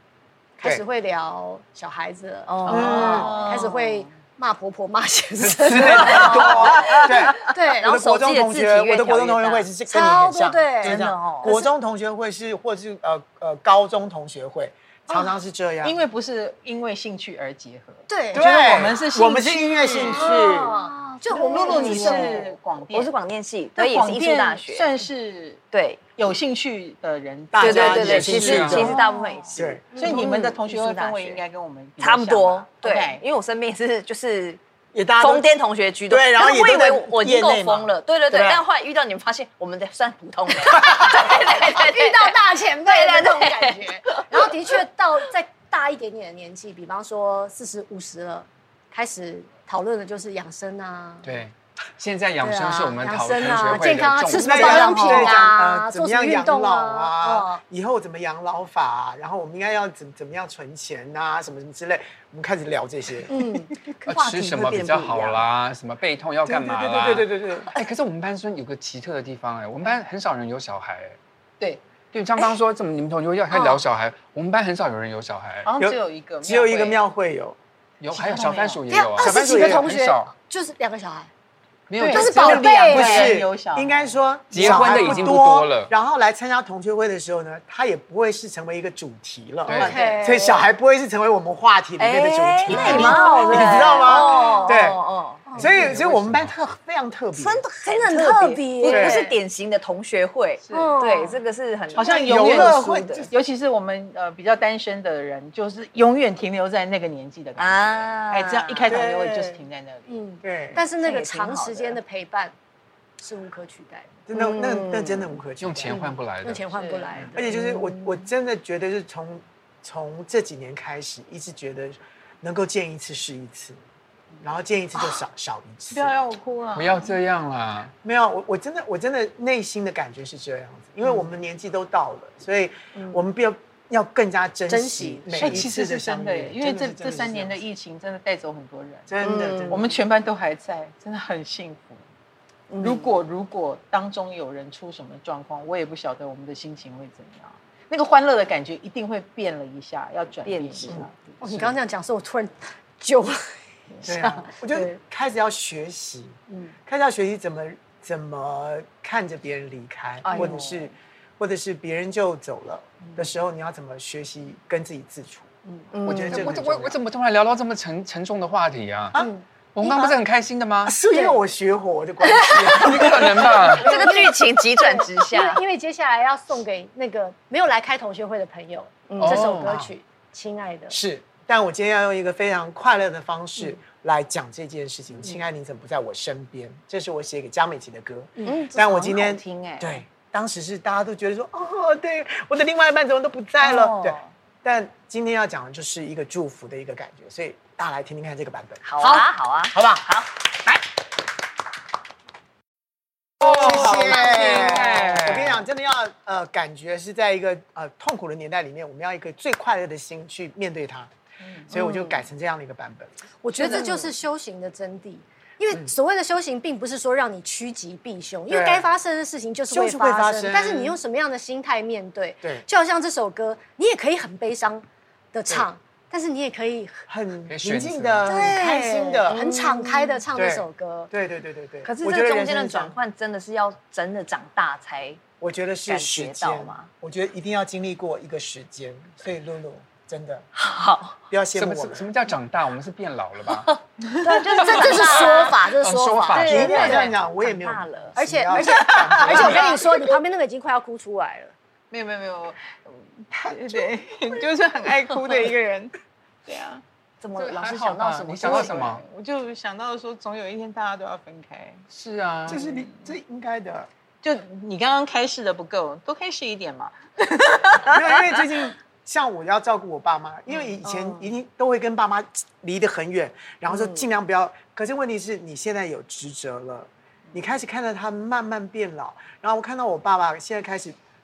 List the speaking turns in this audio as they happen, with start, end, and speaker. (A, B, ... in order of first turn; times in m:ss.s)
0:00.6-0:07.8 A
0:02.5-0:03.9 B
0:02.7-0:03.4 C
0:02.7-0:03.9 D
0:05.4-0:16.0 C
0:05.8-0:09.7 B
0:06.0-0:07.1 D
0:09.9-0:11.7 A
0:10.8-0:11.5 B
0:15.1-0:15.4 A
0:15.8-0:20.5 D
0:18.1-0:18.9 A
0:18.3-0:20.7 C
0:19.8-0:22.5 A
0:20.7-0:24.9 B
0:21.3-0:23.2 D
0:23.8-0:25.6 D
0:25.7-0:26.0 B
0:26.2-0:33.2 D
0:27.5-0:29.0 C
0:27.6-0:31.4 B
0:27.9-0:28.9 E
0:28.9-0:29.2 A
0:29.6-0:29.9 C
0:29.9-0:30.3 A
0:32.0-0:34.6 B
0:34.9-0:35.5 C
0:35.2-0:44.5 B
0:36.1-0:38.6 C
0:41.1-0:51.3 A
0:51.2-0:55.1 E
0:52.4-0:57.6 A
0:54.3-1:03.3 C
0:54.8-0:55.3 B
1:03.3-1:03.7 A
1:03.8-1:05.4 B
1:04.0-1:11.2 E
1:06.4-1:07.7 C
1:12.1-1:15.7 E
1:13.5-1:13.8 A
1:15.6-1:17.0 D
1:15.8-1:17.6 C
1:18.0-1:20.3 E
1:18.1-1:18.8 D
1:18.9-1:21.3 A
1:19.2-1:19.9 C
1:21.9-1:22.7 E
1:22.0-1:25.1 D
1:22.0-1:23.4 A
1:22.4-1:35.0 C
1:24.5-1:25.9 E
1:29.7-1:30.0 E
1:29.7-1:30.3 D
1:29.8-1:30.6 A
1:32.0-1:35.5 B
1:32.7-1:34.8 A
1:35.5-1:35.9 A
1:35.6-1:36.5 E
1:35.6-1:37.6 C
1:37.3-1:43.3 B
1:38.0-1:39.4 A
1:38.9-1:39.2 C
1:40.6-1:40.9 D
1:40.7-1:41.4 A
1:41.9-1:50.1 D
1:42.0-1:43.3 C
1:47.6-1:49.0 B
1:48.9-1:49.6 C
1:50.1-1:52.5 A
1:50.4-1:50.8 C
1:50.9-1:52.0 B
1:53.2-1:54.2 A
1:54.3-1:56.0 C
1:54.3-1:55.4 B
1:55.6-1:56.7 E
1:55.9-1:57.8 A
1:56.7-1:57.3 D
1:57.4-2:03.8 C
2:04.4-2:06.1 C
2:05.9-2:07.1 D
2:06.8-2:07.9 E
2:08.0-2:17.6 C
2:14.7-2:15.6 A
2:15.4-2:19.2 D
2:19.1-2:19.9 C
2:19.2-2:19.8 B
2:19.7-2:22.0 D
2:22.7-2:23.2 B
2:22.8-2:31.1 D
2:30.5-2:31.3 B
2:31.4-2:35.0 A
2:31.4-2:31.7 C
2:34.0-2:45.5 C
2:36.5-2:36.8 A
2:40.2-2:40.9 B
2:40.4-2:40.8 D
2:45.6-2:45.9 A
2:45.9-2:46.5 B
2:46.0-2:47.0 C
2:46.3-2:49.2 E
2:49.2-2:49.4 A
2:49.8-2:51.0 E
2:49.8-2:50.1 C
2:50.8-2:53.8 C
2:51.1-2:51.4 A
2:52.3-2:52.8 B
2:52.8-2:53.9 E
2:53.0-3:01.0 A
2:53.7-2:55.6 B
2:59.1-2:59.6 B
2:59.2-2:59.9 E
3:00.9-3:19.1 C
3:08.4-3:09.3 B
3:08.8-3:10.0 D
3:13.6-3:14.3 B
3:18.8-3:20.3 B
3:19.7-3:20.1 C
3:23.4-3:25.6 E
3:23.4-3:31.1 C
3:23.9-3:24.8 B
3:31.7-3:33.9 C
3:31.7-3:32.2 A
3:33.4-3:47.1 A
3:33.6-3:34.1 B
3:38.5-3:38.9 C
3:39.7-3:41.0 C
3:47.1-3:49.4 C
3:47.5-3:48.5 E
3:48.2-3:51.1 A
3:49.3-3:50.2 B
3:50.3-3:53.0 C
3:51.9-3:55.2 B
3:55.4-4:00.5 C
3:55.9-3:56.9 B
4:00.6-4:01.2 B
4:01.3-4:02.1 C
4:01.5-4:03.7 E
4:03.7-4:05.7 B
4:04.3-4:07.1 A
4:04.8-4:07.0 E
4:06.3-4:08.2 B
4:06.5-4:09.9 C
4:08.2-4:11.5 A
4:08.5-4:09.6 D
4:09.3-4:09.8 B
4:11.9-4:16.8 D
4:17.2-4:18.9 B
4:17.4-4:19.0 E
4:18.4-4:21.9 D
4:21.9-4:22.6 E
4:22.5-4:23.9 C
4:22.5-4:23.1 D
4:24.2-4:28.0 D
4:27.9-4:41.0 C
4:30.8-4:31.3 B
4:33.7-4:34.1 B